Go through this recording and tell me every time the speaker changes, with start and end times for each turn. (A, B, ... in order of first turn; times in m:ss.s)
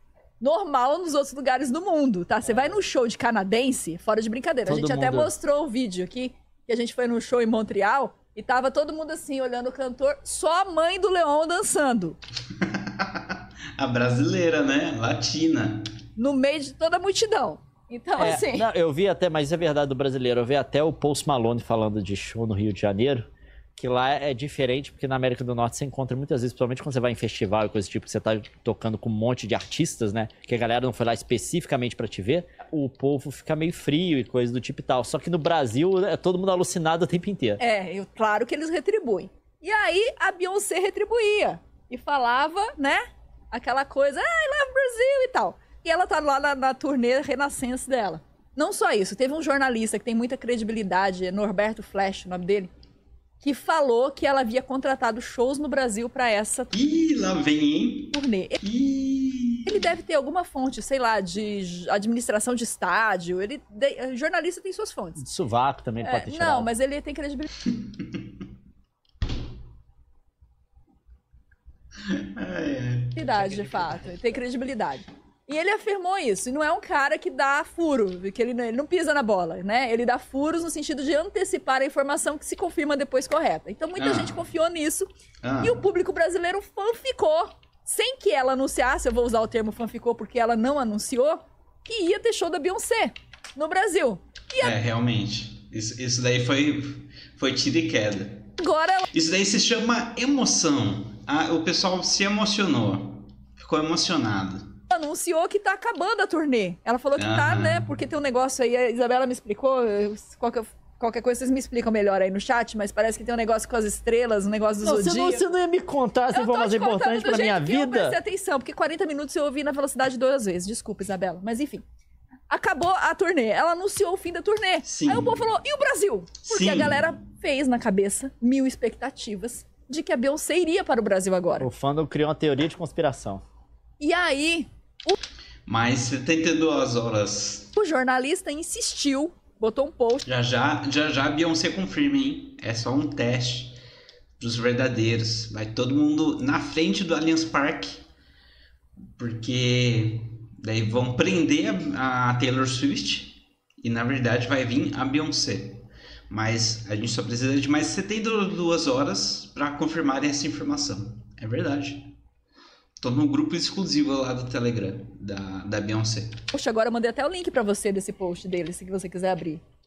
0:00.4-0:12.2 A
0:04.7-0:05.3 B
0:12.5-0:15.9 C
0:16.2-0:18.6 A
0:18.2-0:37.6 B
0:37.6-0:52.7 A
0:53.4-0:56.7 A
0:56.7-0:59.8 C
0:58.1-0:58.6 A
0:59.7-1:05.2 A
1:05.2-1:06.7 B
1:06.0-1:07.5 A
1:07.7-1:08.3 C
1:12.1-1:14.0 C
1:13.2-1:25.1 A
1:24.0-1:24.4 C
1:25.4-1:25.8 C
1:25.6-1:34.8 A
1:34.6-1:38.5 C
1:38.6-1:39.1 A
1:39.1-1:44.7 C
1:44.9-1:55.4 A
1:47.2-1:47.9 C
1:54.8-1:58.2 B
1:56.3-2:01.8 A
2:02.5-2:11.7 A
2:04.8-2:05.4 C
2:06.4-2:07.1 C
2:11.6-2:13.4 B
2:14.0-2:15.2 A
2:15.7-2:17.7 C
2:17.8-2:20.2 A
2:20.2-2:23.8 C
2:24.4-2:28.0 C
2:29.2-2:42.1 C
2:43.0-2:46.4 C
2:46.5-2:49.6 A